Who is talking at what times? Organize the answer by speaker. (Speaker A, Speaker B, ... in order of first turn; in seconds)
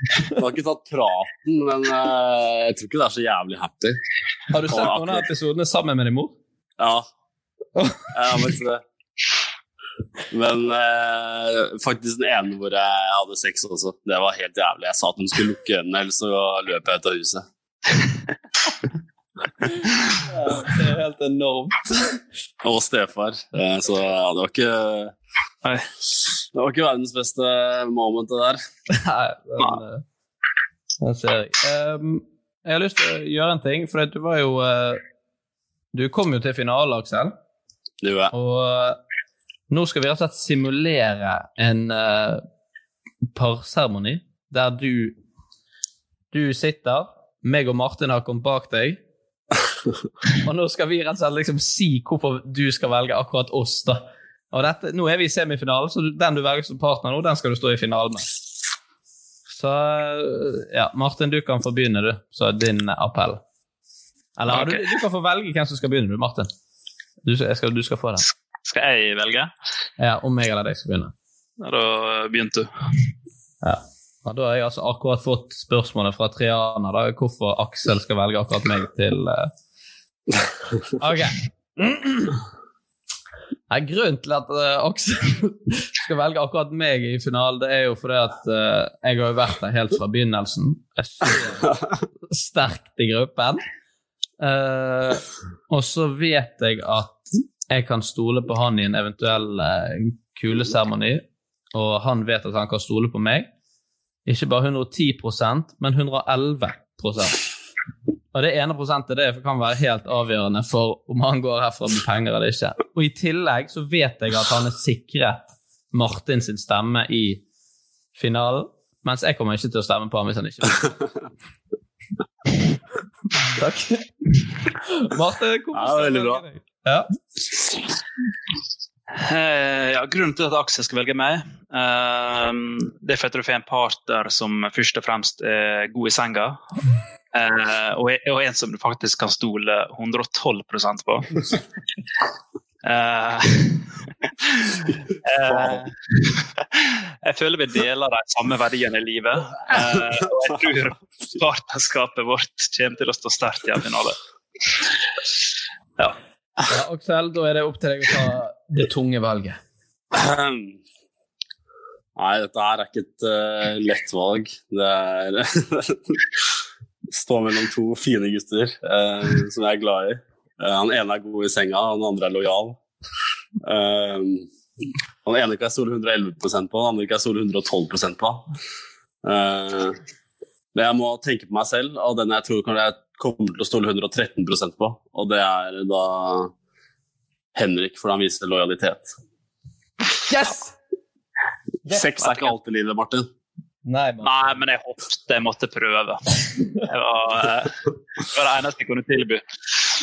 Speaker A: 0.3-4.0, 4.5-5.2, 6.8-7.0, 8.1-8.8, 10.3-17.4, 22.6-25.1, 26.5-28.6, 38.0-38.3, 125.7-126.4, 145.5-145.8, 149.7-150.0, 160.1-160.8, 162.2-166.3, 167.1-172.8, 173.6-174.5, 175.2-178.4, 179.2-180.0, 180.7-186.5, 187.5-189.1, 191.8-193.3
Speaker B: 4.5-6.3, 7.8-8.0, 20.2-21.9, 28.9-30.0, 31.0-35.0, 35.9-37.3, 38.3-39.0, 39.7-42.4, 43.3-45.1, 46.3-49.0, 50.3-58.3, 59.5-63.4, 64.4-66.5, 67.2-68.2, 70.0-71.1, 73.6-79.5, 81.0-82.4, 83.7-91.8, 92.3-93.6, 94.4-103.5, 104.2-107.4, 108.3-117.4, 118.2-120.9, 123.4-124.0, 124.8-127.1, 156.7-159.6, 190.3-190.7, 193.8-194.6
Speaker C: 64.5-64.9, 68.7-69.5, 71.6-72.7, 129.1-136.6, 137.3-141.4, 142.8-143.9, 144.4-154.2, 194.2-199.4